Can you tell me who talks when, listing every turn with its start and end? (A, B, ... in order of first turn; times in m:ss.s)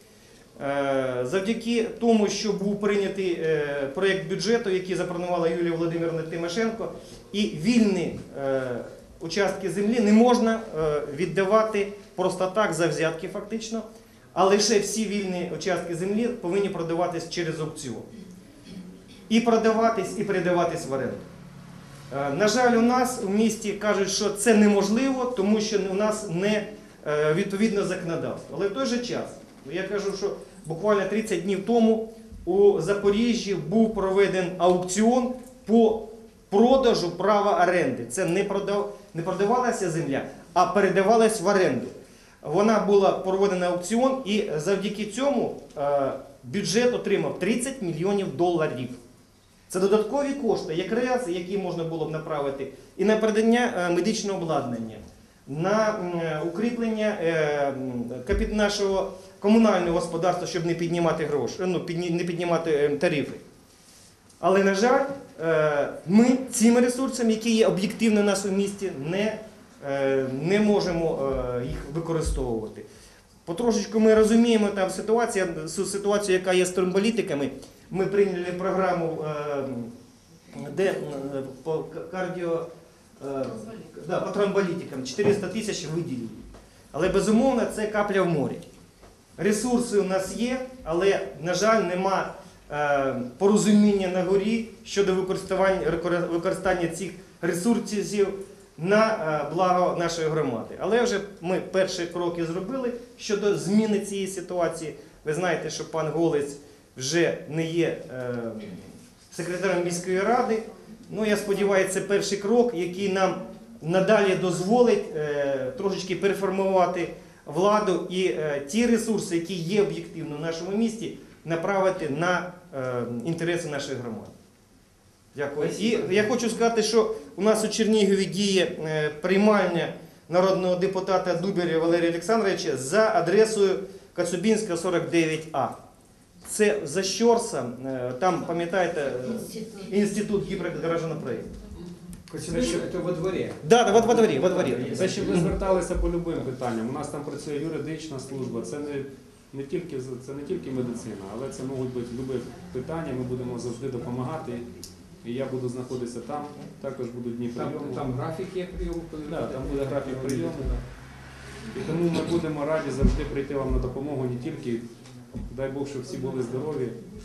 0:00.6-0:18.1 A
0:19.3-0:21.3 A
0:22.1-0:49.0 A
0:49.7-1:03.4 A
1:04.4-1:12.8 A
1:13.5-1:19.9 A
1:20.5-1:22.7 A
1:23.2-1:28.6 A
1:29.4-2:04.3 A
2:05.3-2:15.8 A
2:05.6-2:06.2 B
2:16.4-2:21.5 A
2:22.3-2:25.5 B
2:23.6-2:25.1 A
2:24.9-2:34.7 C
2:35.2-2:38.1 C
2:37.5-2:40.8 B
2:39.2-2:40.8 C
2:41.7-2:44.8 C
2:45.5-2:47.0 C